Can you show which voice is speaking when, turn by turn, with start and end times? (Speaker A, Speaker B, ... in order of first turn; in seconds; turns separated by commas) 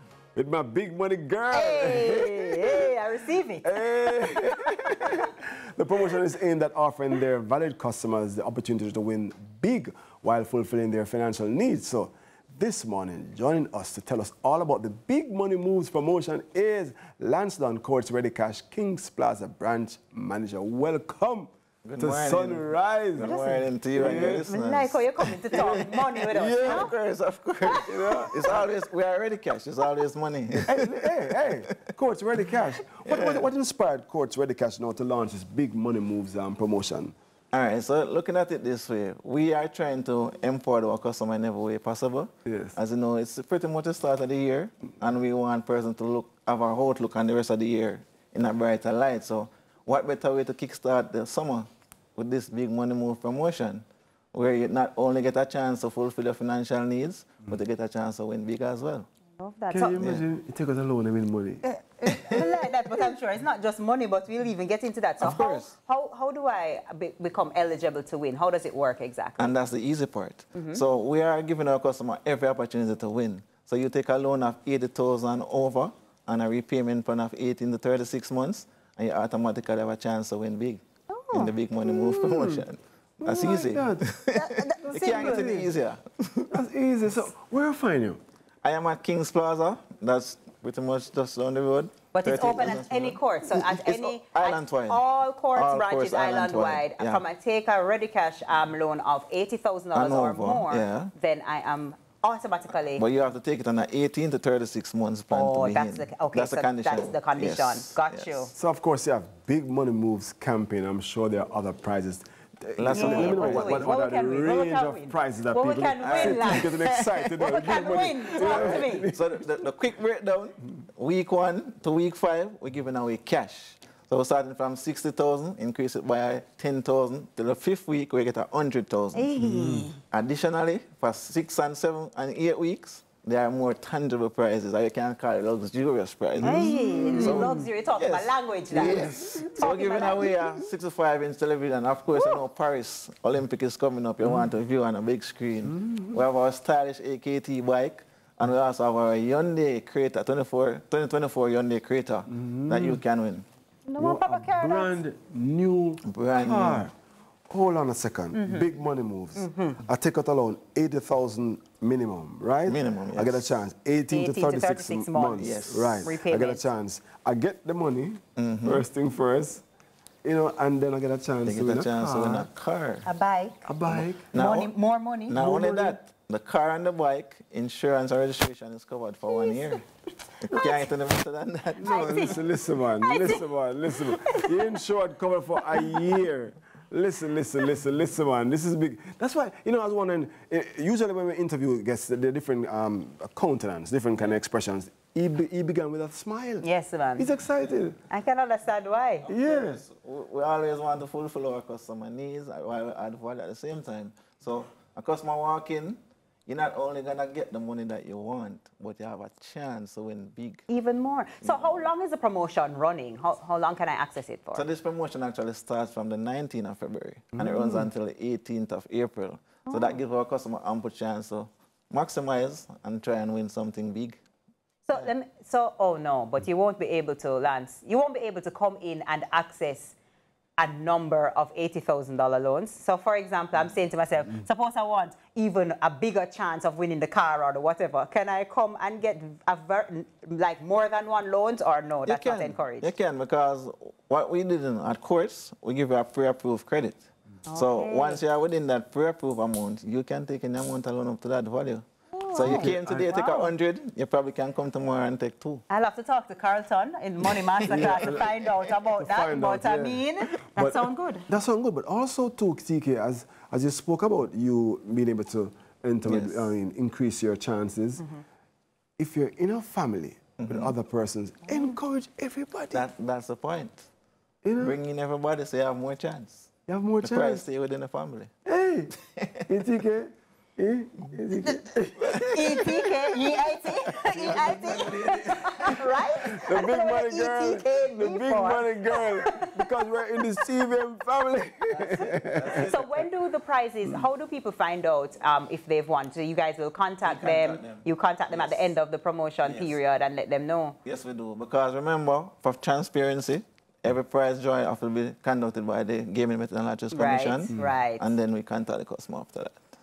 Speaker A: 0.3-2.9, Speaker B: 1.5-4.3, Speaker A: 3.6-23.4, Speaker C: 21.8-31.6, Speaker B: 23.2-26.9, Speaker A: 23.9-24.5, Speaker A: 25.5-26.9, Speaker A: 27.7-28.6, Speaker A: 30.6-37.1, Speaker C: 32.9-33.5, Speaker C: 37.5-59.1, Speaker A: 42.5-42.8, Speaker B: 59.4-60.1, Speaker A: 59.7-61.7, Speaker C: 60.0-60.2, Speaker B: 61.7-69.5, Speaker C: 62.0-62.5, Speaker C: 65.2-65.7, Speaker C: 69.4-86.6, Speaker B: 70.5-70.8, Speaker B: 81.1-81.5, Speaker A: 81.8-82.6, Speaker A: 83.2-84.0, Speaker B: 84.3-85.6, Speaker A: 84.8-85.7, Speaker A: 86.5-88.2, Speaker C: 88.6-95.0, Speaker B: 92.1-103.0, Speaker C: 95.5-97.2, Speaker C: 99.9-101.1, Speaker C: 103.0-108.4, Speaker B: 105.3-108.5, Speaker A: 108.5-119.4, Speaker C: 112.8-113.9, Speaker B: 112.9-119.1, Speaker C: 116.0-117.0, Speaker C: 118.4-129.3, Speaker B: 129.1-130.0, Speaker A: 129.4-129.9, Speaker C: 130.1-153.4, Speaker A: 136.4-137.6, Speaker B: 136.4-140.3, Speaker A: 138.7-140.7, Speaker A: 145.6-146.2, Speaker A: 152.3-153.0, Speaker B: 153.9-155.0, Speaker A: 154.0-156.9, Speaker C: 156.1-156.9, Speaker A: 157.5-169.6, Speaker B: 158.3-158.7, Speaker B: 159.3-159.8, Speaker C: 162.6-163.6, Speaker B: 164.1-166.7, Speaker C: 165.4-166.0, Speaker C: 168.3-168.8, Speaker A: 170.2-172.5, Speaker C: 171.4-173.1, Speaker B: 173.0-173.6, Speaker A: 173.6-174.3, Speaker C: 173.8-174.7, Speaker B: 174.3-175.4, Speaker C: 175.3-179.8, Speaker A: 175.3-176.0, Speaker B: 179.3-179.7, Speaker C: 180.4-182.4, Speaker B: 180.5-180.9, Speaker A: 181.8-198.0, Speaker B: 181.8-183.4, Speaker B: 183.9-184.7, Speaker B: 185.7-186.0, Speaker B: 196.6-197.3, Speaker B: 198.1-199.3, Speaker C: 199.2-210.7, Speaker A: 199.3-199.8, Speaker B: 210.7-214.7, Speaker C: 211.4-211.9, Speaker C: 214.5-224.2, Speaker B: 219.7-220.0, Speaker B: 224.8-229.9, Speaker B: 230.6-242.8, Speaker C: 242.1-255.6, Speaker B: 247.5-248.2, Speaker B: 252.1-253.5, Speaker A: 252.3-253.1, Speaker B: 255.7-261.3, Speaker C: 257.2-258.4, Speaker A: 257.7-258.3, Speaker A: 258.9-260.0, Speaker A: 260.5-268.1, Speaker C: 266.1-266.5, Speaker A: 269.0-272.9, Speaker C: 270.4-270.7, Speaker B: 271.5-271.8, Speaker C: 272.7-273.9, Speaker A: 274.4-274.8, Speaker C: 274.6-276.5, Speaker A: 276.7-277.4, Speaker C: 277.0-278.3, Speaker A: 278.4-278.9, Speaker C: 278.9-279.5, Speaker A: 279.5-282.7, Speaker C: 282.0-282.8, Speaker B: 282.2-289.6, Speaker C: 284.0-286.1, Speaker A: 286.3-292.6, Speaker C: 291.7-293.1, Speaker B: 292.5-300.8, Speaker C: 297.0-298.7, Speaker C: 299.4-299.8, Speaker C: 300.8-309.7, Speaker B: 306.9-308.1